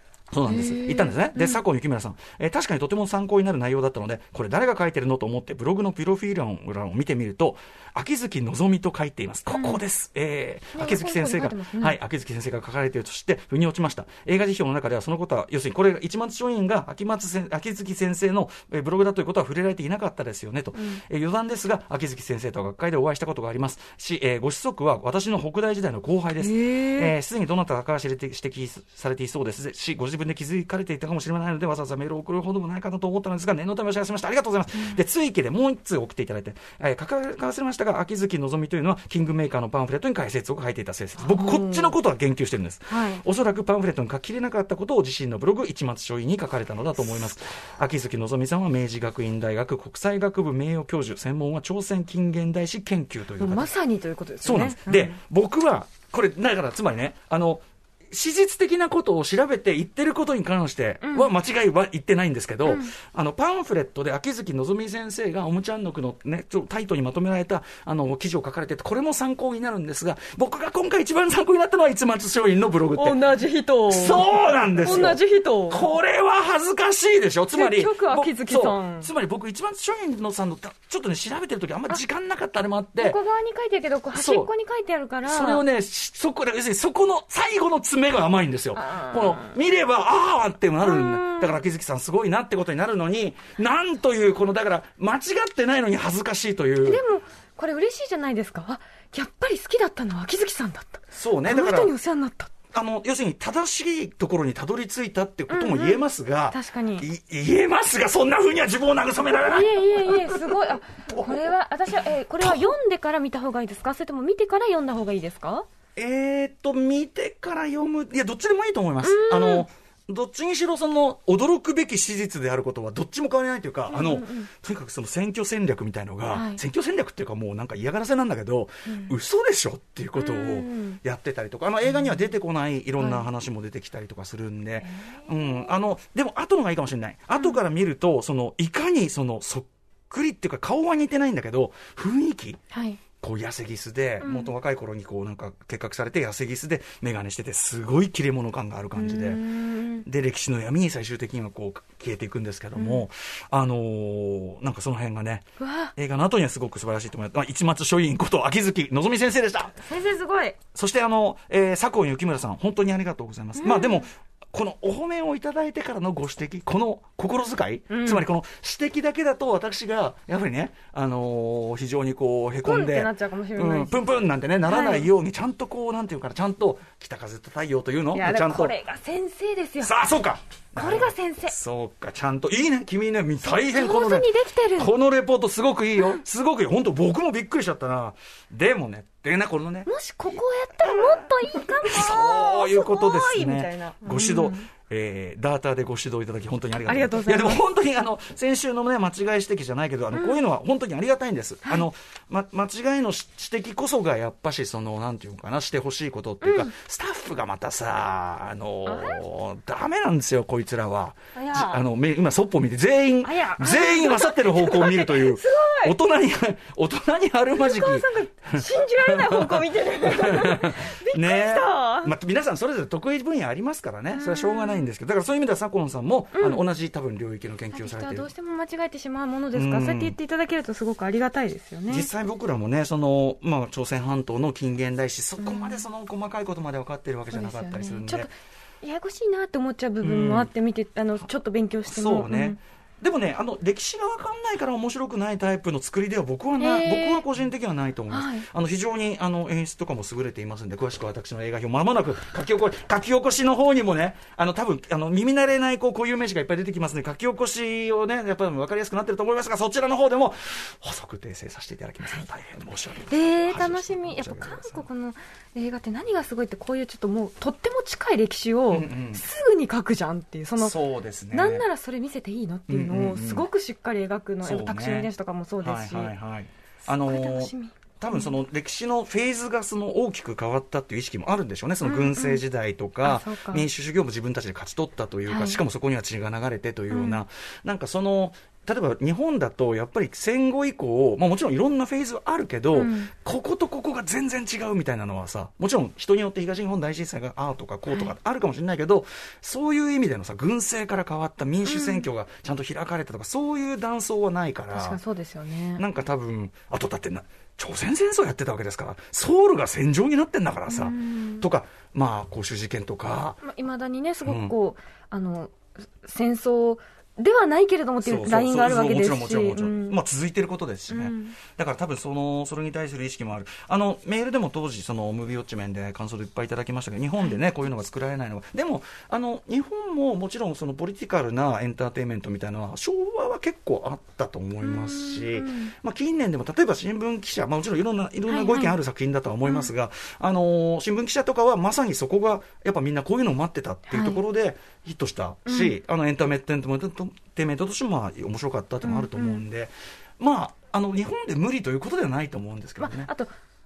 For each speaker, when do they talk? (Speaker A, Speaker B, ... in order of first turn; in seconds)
Speaker A: 0.3-53.8, 54.4-73.2, 73.9-83.2, 84.1-84.5, 85.3-97.0, 101.1-101.9, 102.7-110.6, 111.1-111.3, 112.4-112.7, 116.0-142.6, 143.2-149.4, 150.0-159.8, 160.7-178.8, 179.8-189.9, 190.8-228.3, 229.5-230.2, 231.9-238.3, 240.0-240.5, 241.9-264.9, 268.7-269.2, 270.6-271.6, 272.7-273.5, 274.4-275.1, 275.6-305.0, 305.8-313.4, 314.2-314.5, 318.0-353.1
Speaker B: 0.5-1.6, 9.5-9.8, 10.7-12.0, 20.8-21.0, 26.4-27.1, 41.2-42.0, 42.9-43.2, 53.4-55.2, 61.0-61.3, 62.6-62.9, 72.9-75.9, 77.5-79.1, 83.0-85.6, 88.8-89.5, 90.8-91.6, 96.8-102.5, 105.5-107.1, 109.4-115.7, 119.0-119.7, 123.9-124.5, 126.3-126.6, 128.9-129.2, 130.2-131.0, 133.0-133.2, 134.8-135.7, 142.7-143.0, 144.2-144.5, 148.9-150.1, 152.8-153.1, 155.6-155.9, 159.8-160.6, 163.6-164.1, 167.9-168.3, 172.6-174.1, 174.6-175.1, 178.1-180.0, 180.8-181.5, 183.5-184.9, 189.9-194.7, 196.9-197.6, 200.1-200.4, 206.4-206.7, 208.9-209.2, 211.3-211.8, 213.2-215.9, 217.6-222.1, 224.1-224.9, 226.3-226.6, 227.7-232.1, 235.4-235.8, 237.3-242.6, 246.6-247.2, 248.1-248.5, 263.1-270.8, 271.3-276.1, 276.8-278.3, 281.8-282.4, 283.0-283.6, 285.3-285.6, 286.9-287.2, 292.7-293.1, 301.6-302.1, 304.7-305.8, 310.7-311.4, 313.4-320.0, 320.9-321.4, 334.6-335.7, 338.3-338.7, 339.4-339.7, 343.9-344.2, 345.5-345.8, 348.8-349.4, 352.8-353.3